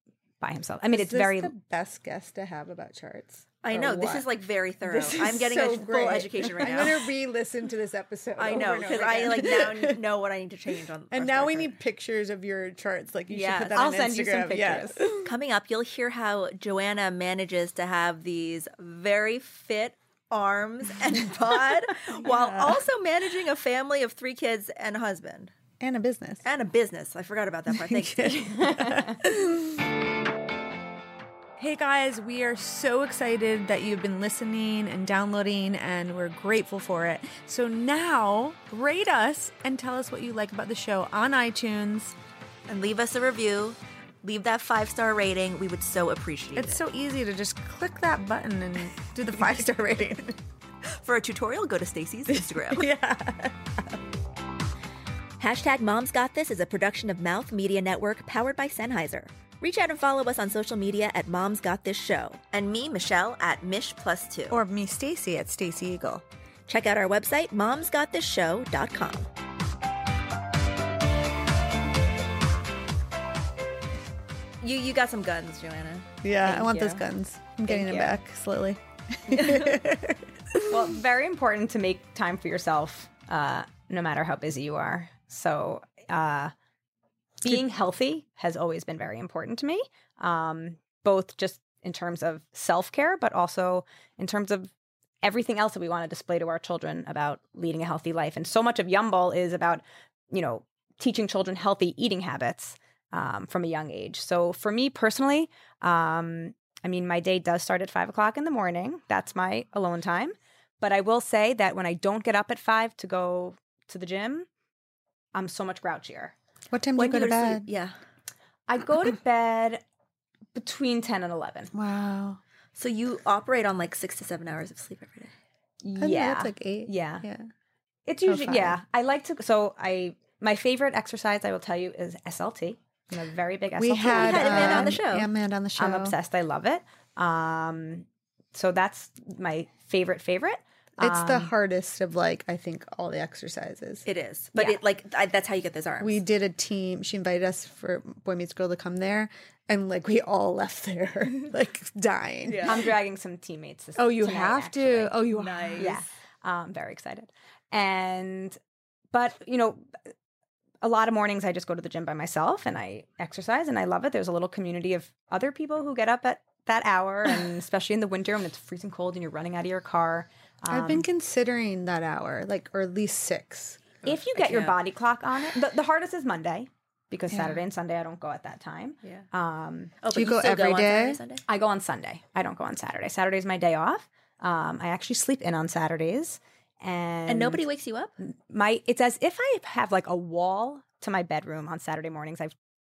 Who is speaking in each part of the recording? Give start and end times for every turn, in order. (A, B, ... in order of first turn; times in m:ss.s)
0:00.4-0:01.5 A
0:00.9-0:04.3 B
0:03.6-0:07.1 C
0:04.8-0:10.0 B
0:08.4-0:11.8 C
0:11.1-0:15.3 B
0:13.3-0:13.7 C
0:13.7-0:15.1 A
0:15.2-0:25.5 C
0:22.2-0:22.8 B
0:25.8-0:26.4 B
0:26.4-0:28.5 C
0:27.7-0:29.8 B
0:28.6-0:29.1 A
0:31.6-0:42.2 B
0:42.7-0:46.8 C
0:46.6-0:50.4 B
0:51.0-0:52.9 C
0:52.3-0:53.7 B
0:55.4-1:04.6 C
1:04.5-1:06.2 B
1:06.7-1:09.3 C
1:14.6-1:17.0 C
1:16.2-1:20.8 B
1:17.7-1:18.1 C
1:19.3-1:19.8 C
1:20.7-1:26.5 A
1:27.4-1:54.5 A
1:55.3-1:56.3 A
1:56.7-1:57.7 B
1:57.0-1:57.9 C
1:58.7-1:59.8 A
2:00.5-2:01.7 A
2:01.7-2:02.4 B
2:02.8-2:05.3 C
2:05.8-2:07.2 A
2:06.0-2:07.5 B
2:08.0-2:15.0 A
2:08.2-2:08.8 B
2:13.8-2:16.2 B
2:14.0-2:15.3 C
2:15.8-2:21.5 A
2:21.0-2:24.0 B
2:24.0-2:26.2 C
2:24.5-2:24.8 A
2:26.0-2:32.9 B
2:32.4-2:32.9 C
2:32.6-2:35.2 A
2:34.0-2:36.0 B
2:35.3-2:36.0 C
2:35.8-2:38.6 A
2:39.1-2:39.9 A
2:40.8-2:51.0 A
2:50.7-2:53.8 B
2:54.0-2:54.8 C
2:54.0-2:59.9 A
2:57.3-2:57.6 B
3:00.0-3:01.4 C
3:00.1-3:01.2 B
3:01.5-3:07.6 A
3:07.3-3:08.1 C
3:08.2-3:12.5 A